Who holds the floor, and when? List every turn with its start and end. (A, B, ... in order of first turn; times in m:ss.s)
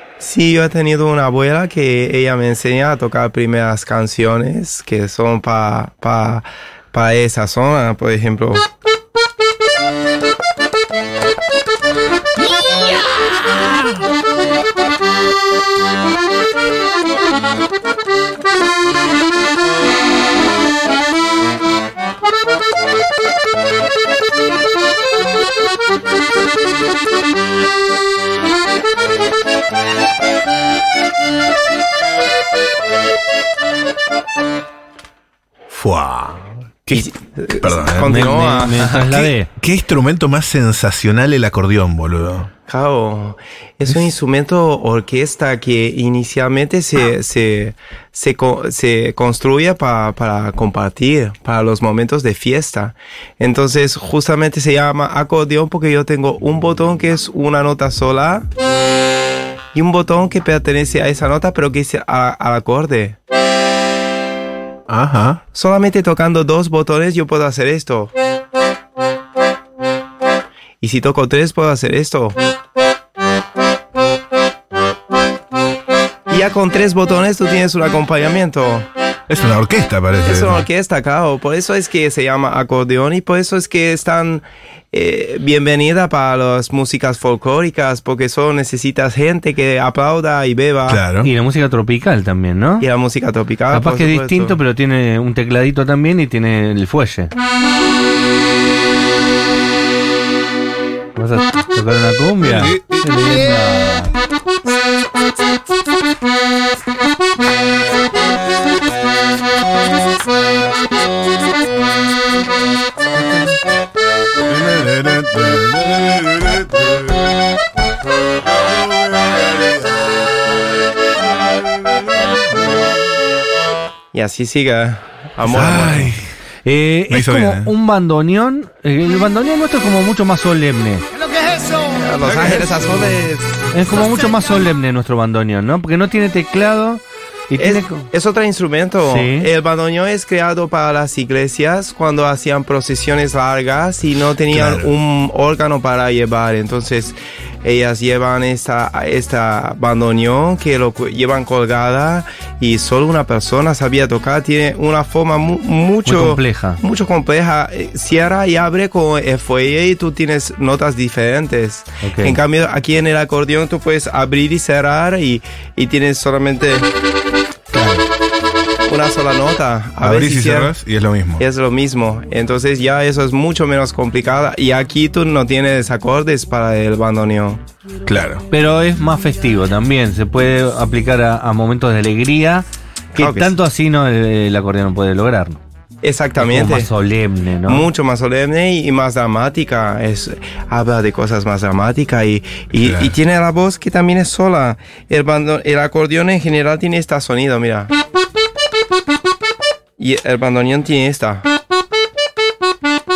0:00.2-0:08.6 A
0:35.7-0:38.3 B
0:36.9-0:39.3 A
0:38.1-0:39.5 C
0:39.6-0:42.5 B
0:42.7-0:58.5 A
0:59.8-1:03.2 A
1:04.9-1:05.4 B
1:05.5-1:08.1 A
1:10.8-1:12.4 A
1:16.3-1:18.9 A
1:19.3-1:20.7 B
1:20.2-1:31.0 A
1:30.9-1:31.3 B
1:31.2-1:32.9 C
1:32.8-1:34.6 A
1:33.7-1:37.3 C
1:41.2-1:44.2 C
1:42.4-1:43.5 B
1:54.5-1:57.1 B
1:59.1-2:00.1 B
2:04.1-2:06.2 A
2:05.4-2:06.3 B
2:06.6-2:11.0 C
2:07.1-2:07.7 B
2:11.5-2:13.6 A
2:13.7-2:18.0 C
2:17.6-2:46.9 A
2:19.0-2:19.5 C
2:24.4-2:24.9 B
2:36.1-2:36.8 C
2:42.0-2:42.4 C
2:47.7-2:48.0 B
2:48.9-2:50.7 A
2:50.0-2:51.4 B
2:51.4-2:57.6 A
2:58.1-2:58.4 B
2:58.5-3:05.6 C
3:03.2-3:03.5 A
3:06.0-3:06.9 A
3:06.4-3:07.9 C
3:07.7-3:17.9 A
3:12.7-3:13.1 B
3:20.0-3:21.4 A